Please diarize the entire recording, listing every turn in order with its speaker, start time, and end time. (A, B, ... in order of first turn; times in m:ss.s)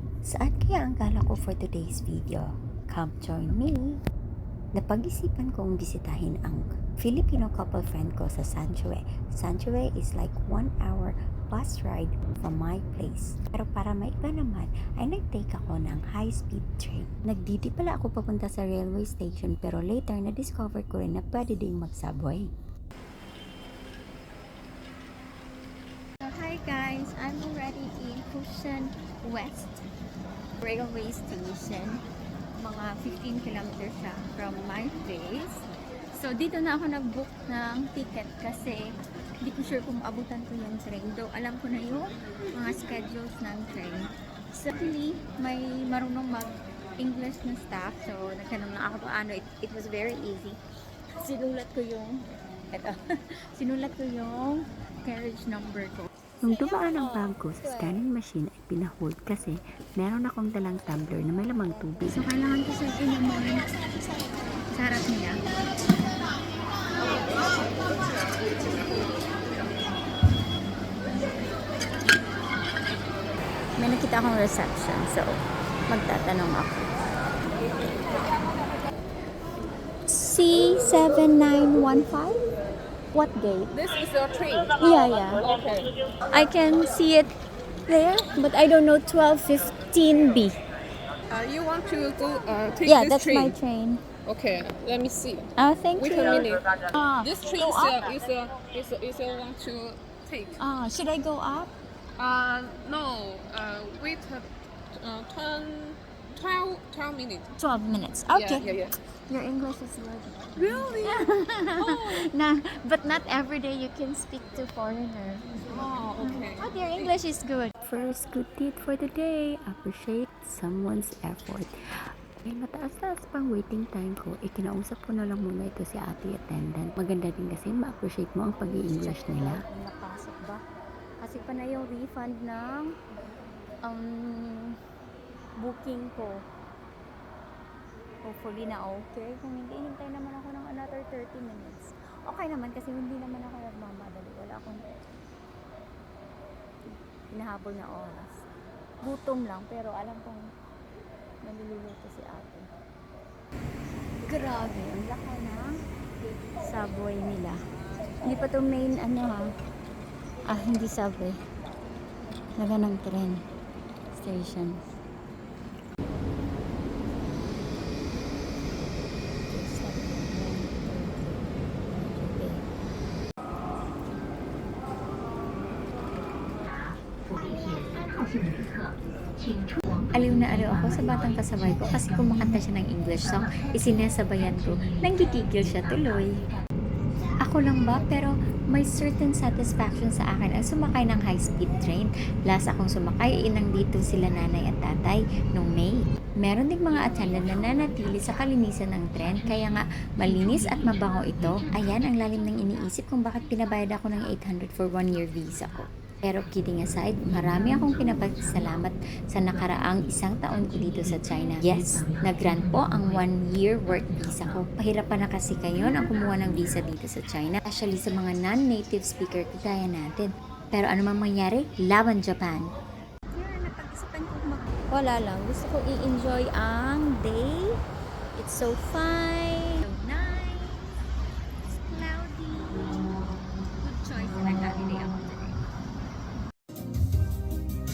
0:00.2-0:04.0 A
0:04.8-0:22.5 A
0:26.2-0:29.8 B
0:30.6-0:32.0 B
0:32.6-0:50.6 B
0:51.2-0:56.1 B
0:56.4-1:02.3 A
1:02.1-1:03.7 B
1:04.7-1:05.4 B
1:13.8-1:17.0 B
1:20.1-1:22.4 B
1:23.1-1:23.7 B
1:23.7-1:24.8 C
1:24.8-1:25.4 B
1:25.4-1:25.9 C
1:26.3-1:27.3 B
1:27.9-1:30.6 B
1:31.3-1:33.6 C
1:32.8-1:34.0 B
1:34.2-1:40.6 C
1:35.6-1:38.0 B
1:40.6-1:41.7 B
1:42.2-1:47.5 C
1:47.6-1:48.7 B
1:48.3-1:49.0 C
1:49.3-1:55.6 B
1:50.6-1:51.2 C
1:51.8-1:52.3 C
1:55.7-1:57.1 C
1:56.2-1:57.8 B
1:57.8-2:01.7 A
2:02.4-2:09.6 A
2:08.9-2:10.6 B
2:11.2-2:12.9 B
2:13.8-2:14.8 B
2:15.6-2:16.4 B
2:18.2-2:25.0 B
2:26.9-2:28.5 B
2:29.0-2:30.5 B
2:31.4-2:32.7 B
2:34.2-2:35.7 B
2:36.6-2:37.6 B
2:38.2-2:39.5 B
2:40.5-2:41.4 B
2:42.6-2:43.4 B
2:44.1-2:44.9 B
2:49.5-2:52.7 B
2:57.3-3:06.4 A
3:07.4-3:42.7 A
3:43.3-3:47.8 B
3:48.4-3:51.0 B
3:51.6-3:53.1 B
3:53.8-3:55.6 B